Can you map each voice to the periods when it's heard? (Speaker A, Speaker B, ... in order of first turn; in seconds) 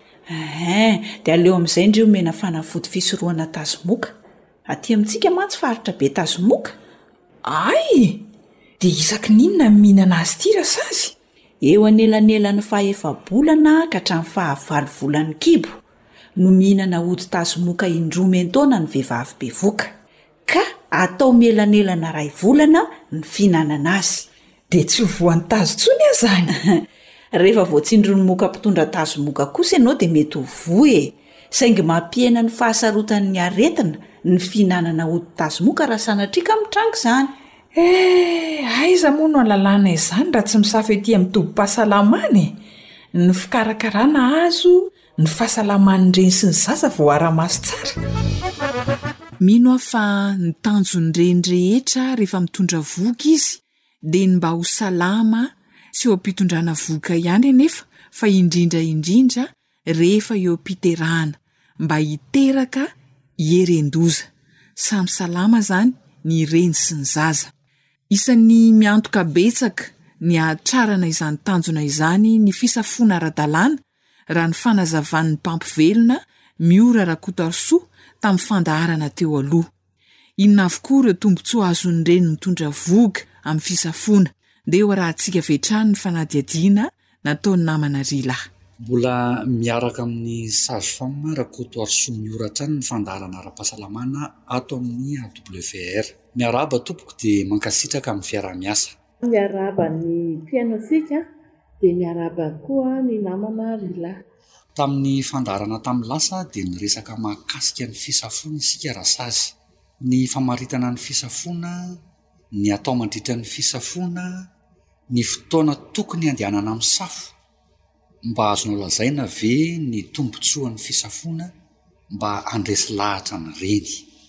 Speaker A: 0.3-6.8, 11.6-15.8, 16.4-19.9, 20.5-24.3, 26.6-37.4
Speaker B: 7.4-8.2, 8.8-11.1, 24.7-26.5, 37.7-42.6, 43.1-48.0, 49.4-67.5, 68.1-79.7, 80.4-88.4
Speaker C: 88.8-99.0, 104.7-112.0, 112.5-114.5, 115.1-117.3, 118.2-121.5, 122.1-124.1
Speaker D: 99.2-101.2, 101.8-104.2